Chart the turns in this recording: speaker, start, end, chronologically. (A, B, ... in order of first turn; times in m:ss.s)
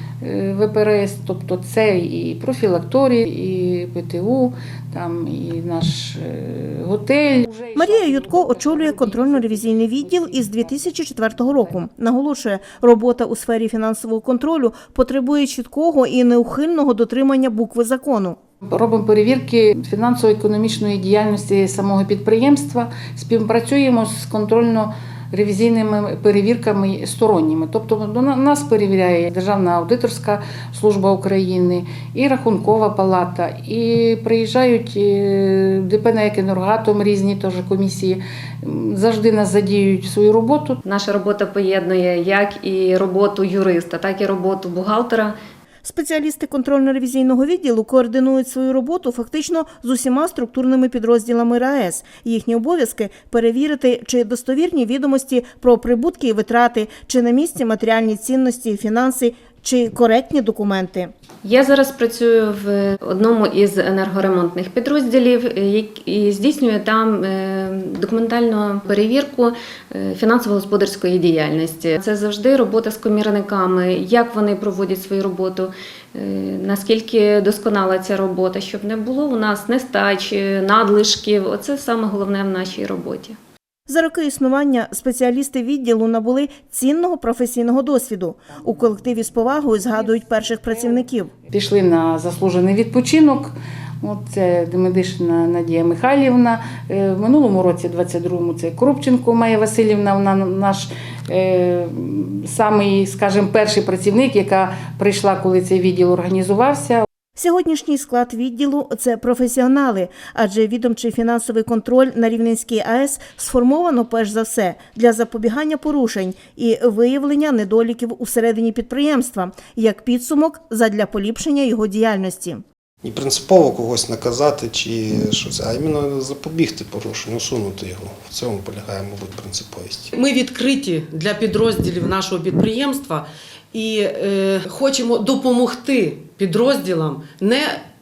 0:00.2-0:10.8 A
0:07.8-0:18.4 B
0:11.3-0:11.7 A
0:18.6-0:40.8 A
0:40.8-0:45.4 C
0:45.8-1:01.1 B
1:01.4-1:23.4 C
1:23.9-1:31.3 B
1:31.5-1:47.0 A
1:47.4-2:02.6 B
2:03.0-2:10.1 D
2:10.1-2:17.8 E